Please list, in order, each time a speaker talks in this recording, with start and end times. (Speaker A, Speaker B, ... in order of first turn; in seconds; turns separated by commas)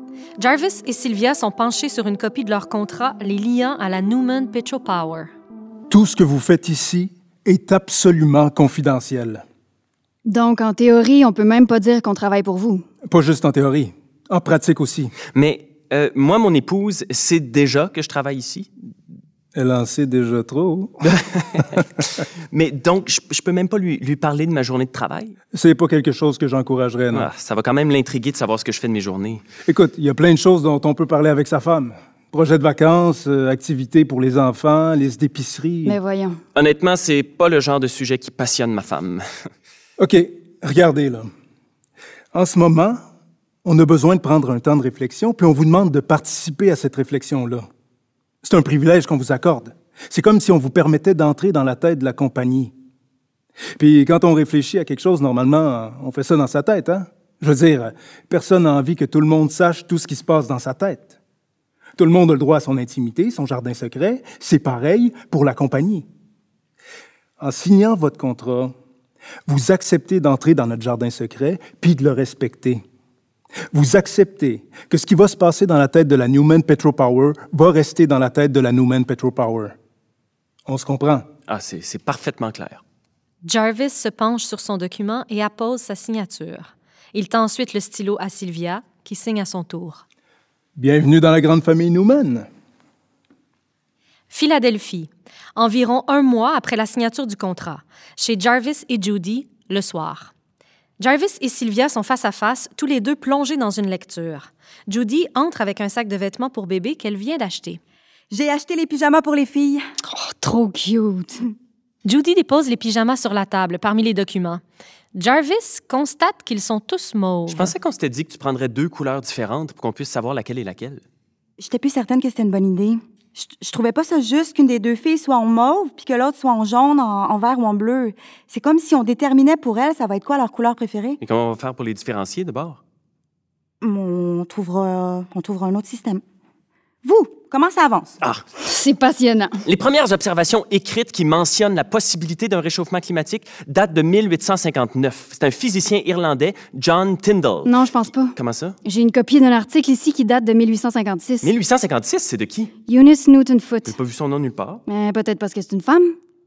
Speaker A: 0.4-5.3, Speaker B: 5.9-9.4, Speaker C: 10.2-12.8, Speaker B: 13.1-15.1, Speaker D: 15.3-18.7, Speaker B: 19.5-21.8, Speaker D: 21.1-21.8, Speaker D: 22.5-25.4, Speaker B: 25.5-27.3, Speaker D: 27.1-29.4, Speaker B: 29.6-36.0, Speaker C: 35.8-36.4, Speaker D: 36.5-39.2, Speaker B: 40.0-41.3, Speaker B: 42.3-43.0, Speaker B: 43.6-47.6, Speaker B: 48.4-52.7, Speaker B: 53.8-61.2, Speaker B: 62.0-66.0, Speaker B: 67.4-68.7, Speaker B: 69.5-72.8, Speaker B: 73.7-79.7, Speaker B: 80.7-81.3, Speaker D: 81.5-82.8, Speaker A: 83.4-90.0, Speaker B: 90.8-92.5, Speaker A: 94.3-100.3, Speaker A: 101.0-107.8, Speaker E: 108.3-109.8, Speaker C: 110.1-111.4, Speaker A: 112.0-114.6, Speaker A: 115.1-117.7, Speaker D: 117.5-121.0, Speaker E: 121.6-131.2, Speaker D: 131.2-132.8, Speaker E: 133.8-136.2, Speaker E: 137.0-138.1, Speaker C: 138.6-139.5, Speaker D: 139.7-147.7, Speaker C: 147.6-151.5, Speaker D: 148.3-148.8, Speaker D: 151.4-152.7, Speaker C: 152.8-153.9, Speaker D: 153.8-154.8, Speaker C: 154.9-156.1